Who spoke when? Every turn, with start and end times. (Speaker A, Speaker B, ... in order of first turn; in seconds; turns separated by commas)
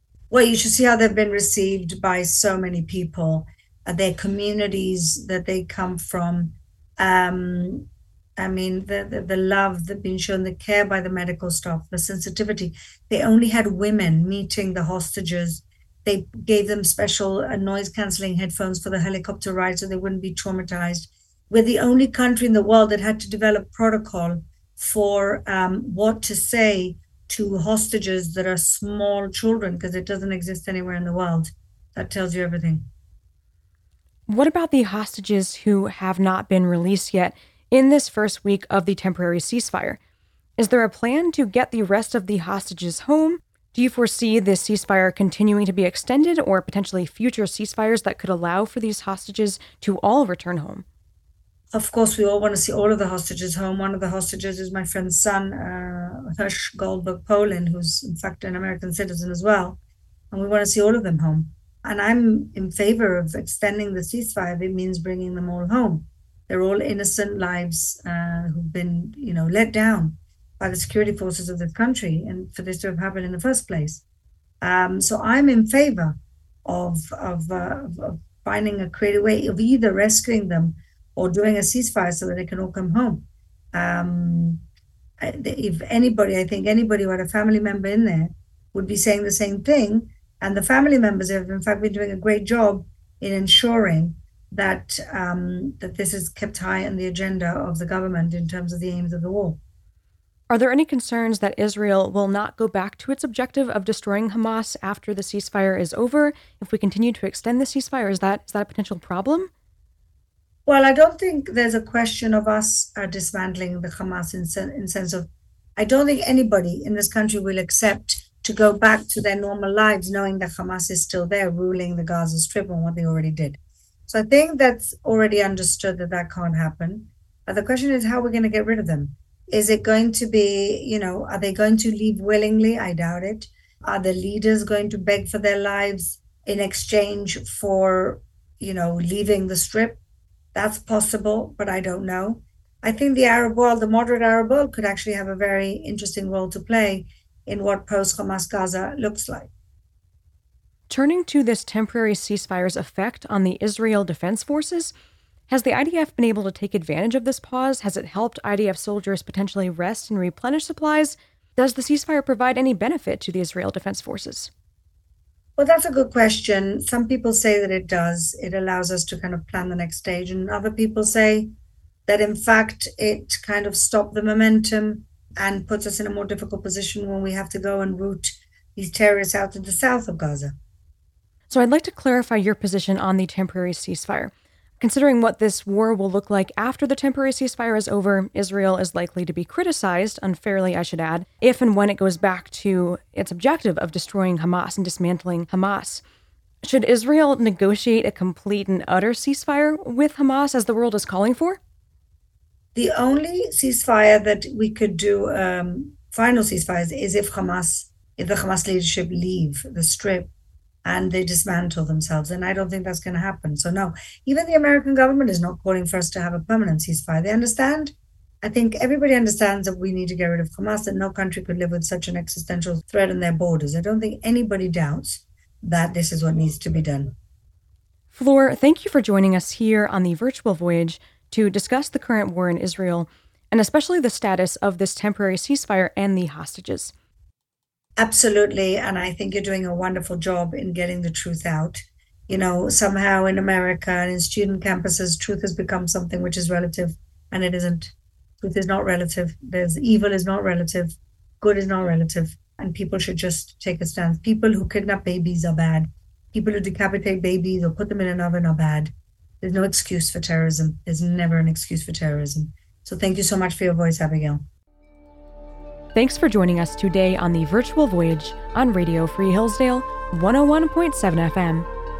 Speaker A: 0.3-32.9, Speaker B: 34.3-40.0, Speaker B: 40.6-50.9, Speaker A: 51.7-59.8, Speaker A: 60.3-74.0, Speaker A: 74.6-84.6, Speaker A: 85.2-99.6, Speaker B: 100.5-109.5, Speaker A: 110.7-140.0, Speaker A: 140.5-149.5, Speaker B: 150.9-154.9, Speaker B: 155.5-164.5, Speaker A: 165.6-171.5, Speaker A: 172.1-180.6, Speaker B: 181.5-196.0, Speaker B: 196.6-201.6, Speaker A: 202.8-210.3, Speaker A: 210.8-227.1, Speaker B: 228.1-236.9, Speaker A: 238.0-264.4, Speaker B: 265.9-271.7